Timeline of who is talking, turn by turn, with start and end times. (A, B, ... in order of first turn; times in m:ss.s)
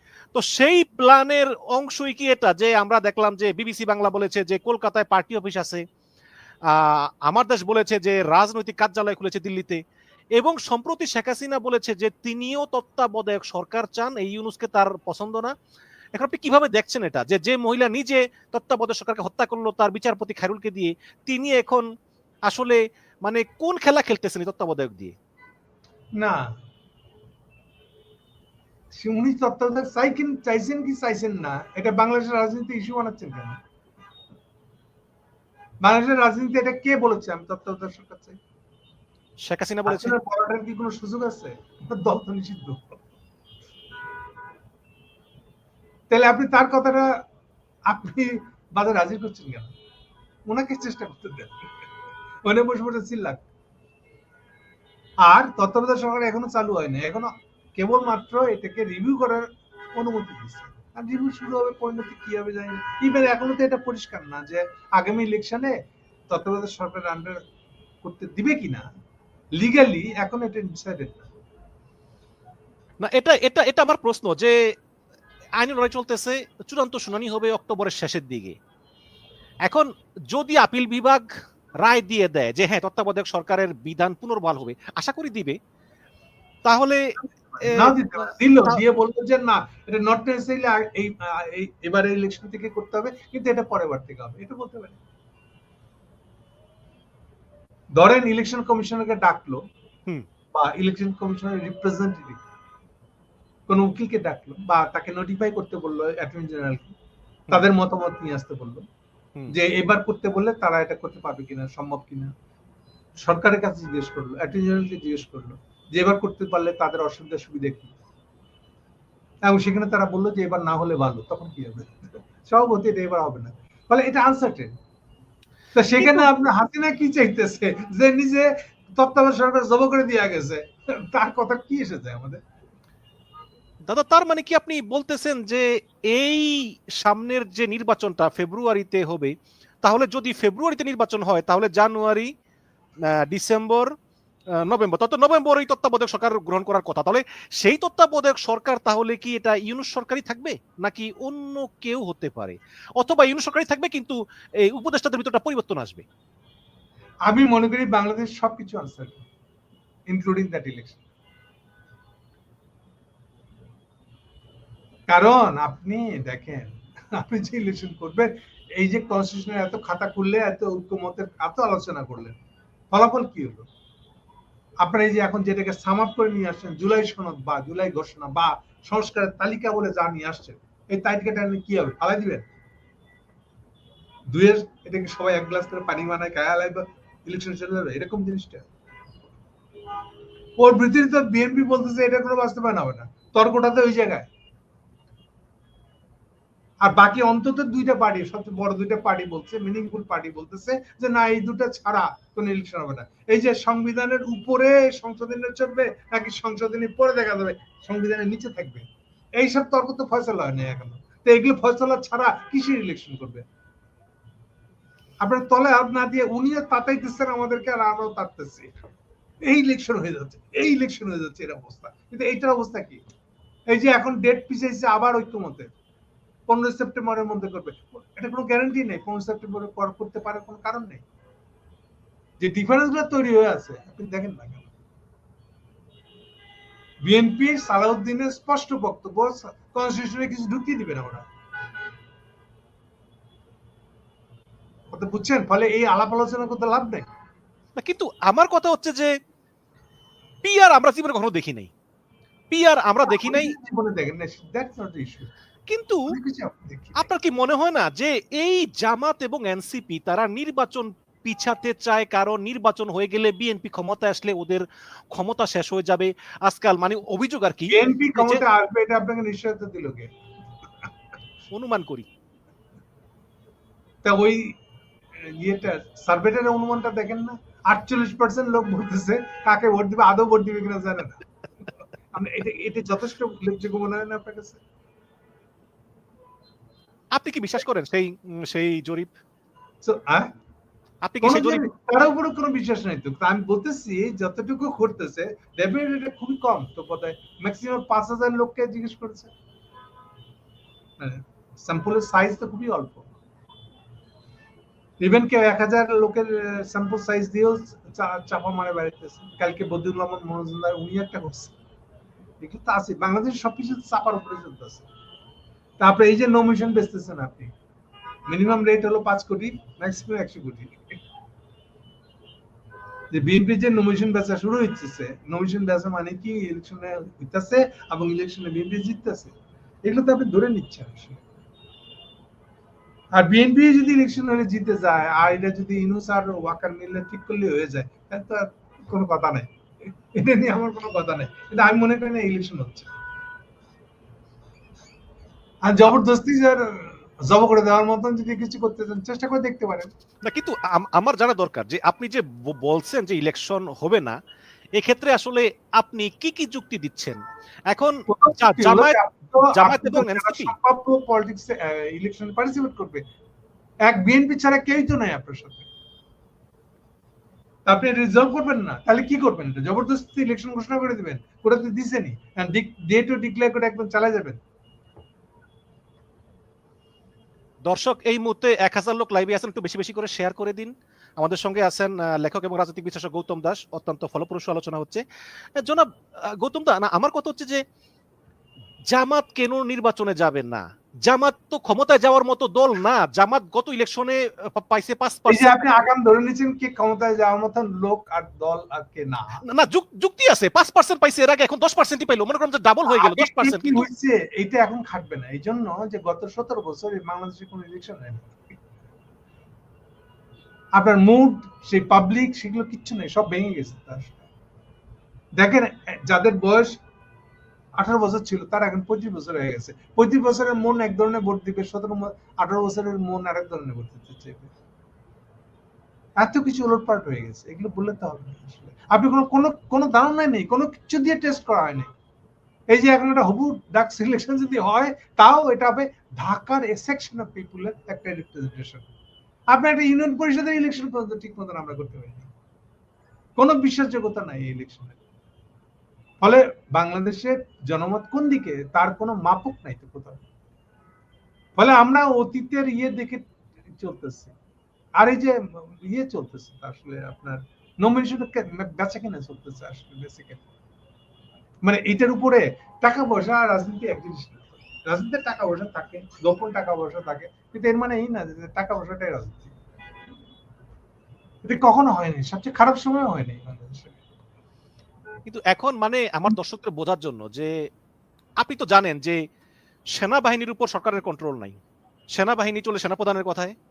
0:00.4-0:05.8 A
0:06.7-0:09.8 A
0:10.4-0:15.5 A
0:16.1-0:21.9 A
0:22.5-0:25.2 A
0:26.2-0:26.5 B
0:28.9-0:33.6 B
0:35.8-0:38.4 B
0:39.4-0:40.2 A
0:39.9-0:43.0 B
0:46.1-0:47.2 B
0:47.9-0:49.7 B
0:50.5-0:51.8 B
0:52.4-0:53.4 B
0:55.2-1:05.8 B
1:06.3-1:07.4 B
1:08.0-1:08.8 B
1:09.6-1:11.3 B
1:13.0-1:14.5 A
1:15.6-1:18.6 A
1:19.6-1:21.2 A
1:21.8-1:25.6 A
1:26.6-1:28.8 A
1:27.6-1:35.0 B
1:38.0-1:39.6 B
1:40.5-1:42.4 B
1:43.7-1:46.9 B
1:47.5-1:48.8 B
1:49.5-1:52.3 B
1:53.2-1:57.9 B
1:59.4-2:04.7 B
2:05.8-2:12.4 B
2:06.0-2:06.4 A
2:13.9-2:22.3 A
2:23.1-2:23.9 A
2:24.6-2:36.0 A
2:37.3-2:39.2 B
2:40.1-2:41.0 B
2:45.1-2:52.4 B
2:52.9-2:53.7 B
2:54.8-3:02.4 B
3:04.3-3:08.6 B
3:10.6-3:14.3 B
3:16.8-3:28.8 B
3:29.4-3:33.4 B
3:35.2-3:38.7 B
3:39.5-3:43.0 B
3:43.7-3:45.8 B
3:46.5-3:51.0 B
3:52.4-3:54.7 B
3:57.0-4:01.2 B
4:04.9-4:07.1 B
4:07.8-4:09.2 A
4:10.4-4:11.7 A
4:12.5-4:13.5 A
4:13.1-4:15.3 B
4:15.7-4:16.0 A
4:16.1-4:17.1 B
4:17.0-4:28.4 A
4:27.7-4:30.1 B
4:31.5-4:32.1 A
4:34.0-4:34.5 B
4:35.2-4:41.2 B
4:42.1-4:44.6 B
4:47.1-4:49.2 A
4:49.8-4:50.3 B
4:51.0-4:51.6 A
4:51.2-4:59.3 B
5:01.0-5:03.1 B
5:05.0-5:11.6 B
5:12.4-5:14.9 B
5:15.8-5:17.5 B
5:18.3-5:21.0 B
5:23.1-5:31.2 B
5:33.1-5:42.9 B
5:45.6-5:49.9 B
5:50.2-5:54.1 A
5:54.8-5:57.2 A
5:57.7-5:59.0 A
5:58.1-6:03.0 B
5:59.5-6:00.5 A
6:03.9-6:05.7 B
6:07.7-6:14.4 B
6:17.6-6:25.0 A
6:25.6-6:25.9 A
6:26.4-6:27.6 A
6:28.9-6:35.6 A
6:35.3-6:39.4 B
6:39.5-6:43.9 A
6:42.9-6:48.6 B
6:50.8-6:54.2 B
6:55.4-6:56.8 B
6:57.8-7:04.5 B
7:06.2-7:11.9 B
7:12.7-7:18.9 B
7:19.5-7:22.3 B
7:23.4-7:25.0 B
7:26.2-7:30.2 B
7:31.6-7:33.2 B
7:33.8-7:34.3 B
7:35.0-7:40.4 B
7:41.6-7:49.5 B
7:51.4-7:54.0 B
7:55.3-7:57.5 A
7:58.4-7:59.2 A
7:59.9-8:01.6 A
8:02.1-8:03.6 A